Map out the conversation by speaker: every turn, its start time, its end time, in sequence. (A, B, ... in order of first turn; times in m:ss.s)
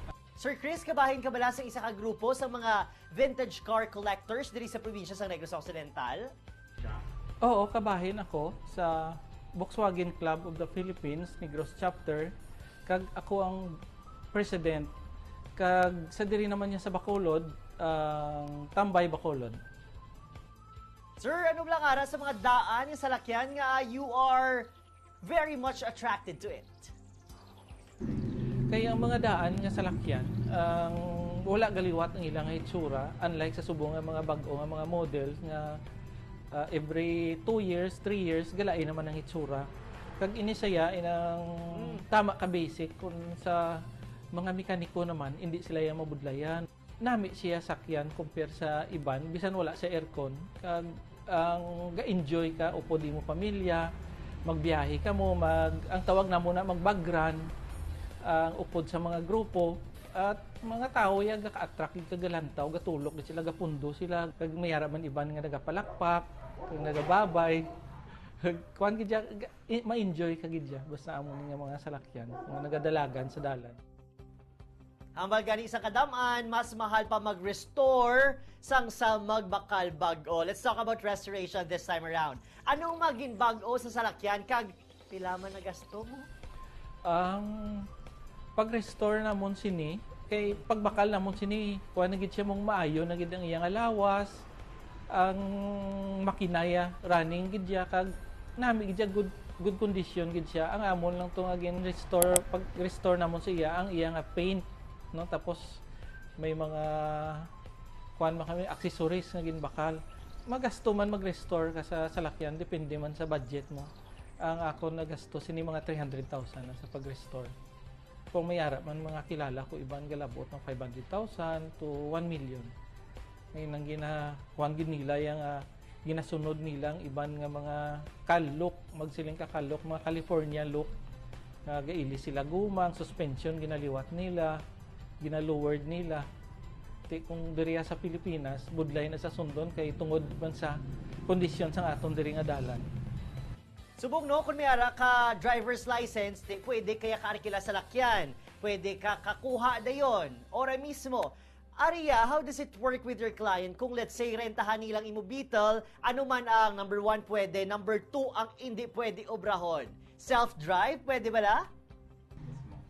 0:00.4-0:06.3 A
0:07.4-0:12.3 B
0:12.9-0:13.7 B
0:14.3-0:14.9 B
0:15.6-0:19.6 B
0:21.2-0:24.7 A
0:25.2-0:26.9 A
0:28.7-0:35.8 B
0:36.5-0:39.7 B
0:40.2-0:43.8 B
0:41.8-0:42.0 A
0:44.3-0:53.9 B
0:54.5-0:57.5 B
0:58.2-1:07.6 B
1:08.4-1:13.8 B
1:15.2-1:26.3 A
1:27.0-1:27.8 B
1:28.6-1:34.4 B
1:35.1-1:45.8 B
1:46.4-1:47.5 B
1:48.2-1:53.9 B
1:54.4-1:57.5 B
1:58.3-2:02.7 B
2:03.5-2:10.9 B
2:11.7-2:14.6 B
2:15.2-2:16.3 B
2:17.1-2:22.8 B
2:24.0-2:41.6 A